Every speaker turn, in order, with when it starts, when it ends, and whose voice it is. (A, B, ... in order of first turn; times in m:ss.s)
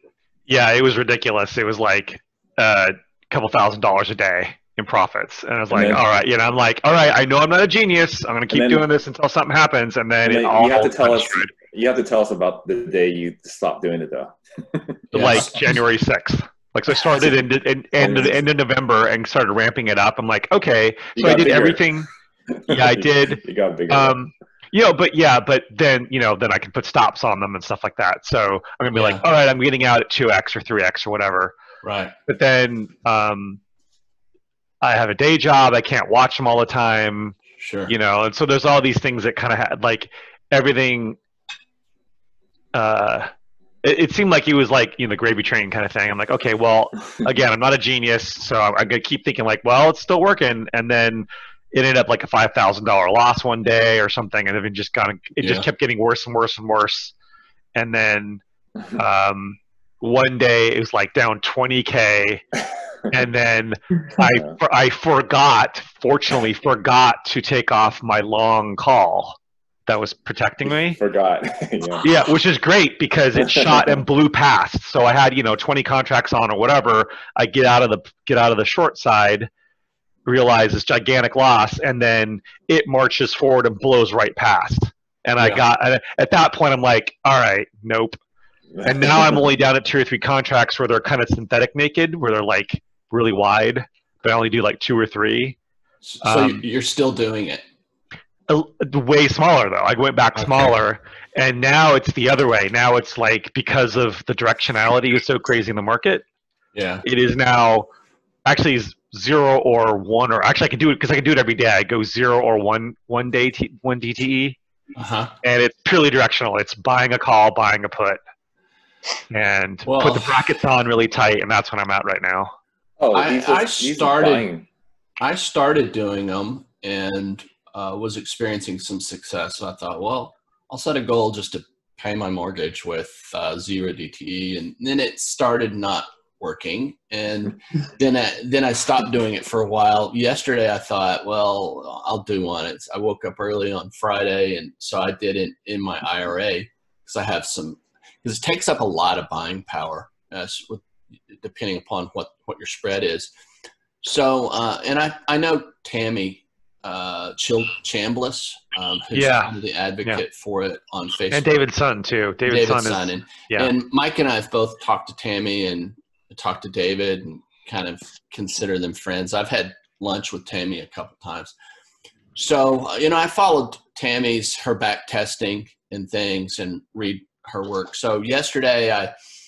0:00.5-0:11.5 A
0:05.7-0:06.0 B
0:08.5-0:08.8 B
0:10.2-0:15.0 B
0:15.1-0:15.8 C
0:15.1-0:22.1 A
0:18.0-0:18.4 B
0:21.2-0:21.8 B
0:22.5-0:24.2 B
0:22.7-0:31.5 A
0:28.9-0:29.2 C
0:31.8-0:32.1 C
0:32.3-0:33.6 A
0:34.8-0:37.4 A
0:37.6-0:37.9 C
0:37.9-0:41.2 A
0:42.7-0:43.3 A
0:43.8-0:57.1 A
0:55.4-0:55.7 C
0:57.7-0:58.4 A
0:59.0-1:02.4 A
1:03.1-1:11.0 A
1:04.2-1:04.5 B
1:10.9-1:12.0 B
1:12.0-1:19.5 A
1:13.4-1:14.0 B
1:20.2-1:28.2 A
1:25.4-1:25.7 C
1:28.7-1:29.4 B
1:28.8-1:35.6 A
1:36.0-1:37.6 C
1:36.2-1:36.6 A
1:38.5-1:46.2 A
1:40.4-1:40.7 C
1:46.7-1:47.0 C
1:47.0-1:47.8 A
1:48.4-1:54.6 A
1:55.0-1:55.3 C
1:55.4-1:58.2 A
1:59.3-2:02.5 A
1:59.8-2:00.5 C
2:03.0-2:04.7 B
2:03.1-2:04.5 C
2:05.2-2:33.3 C
2:34.0-2:41.6 C
2:39.1-2:39.5 A
2:41.3-2:43.7 A
2:42.4-2:51.5 C
2:52.3-2:59.1 C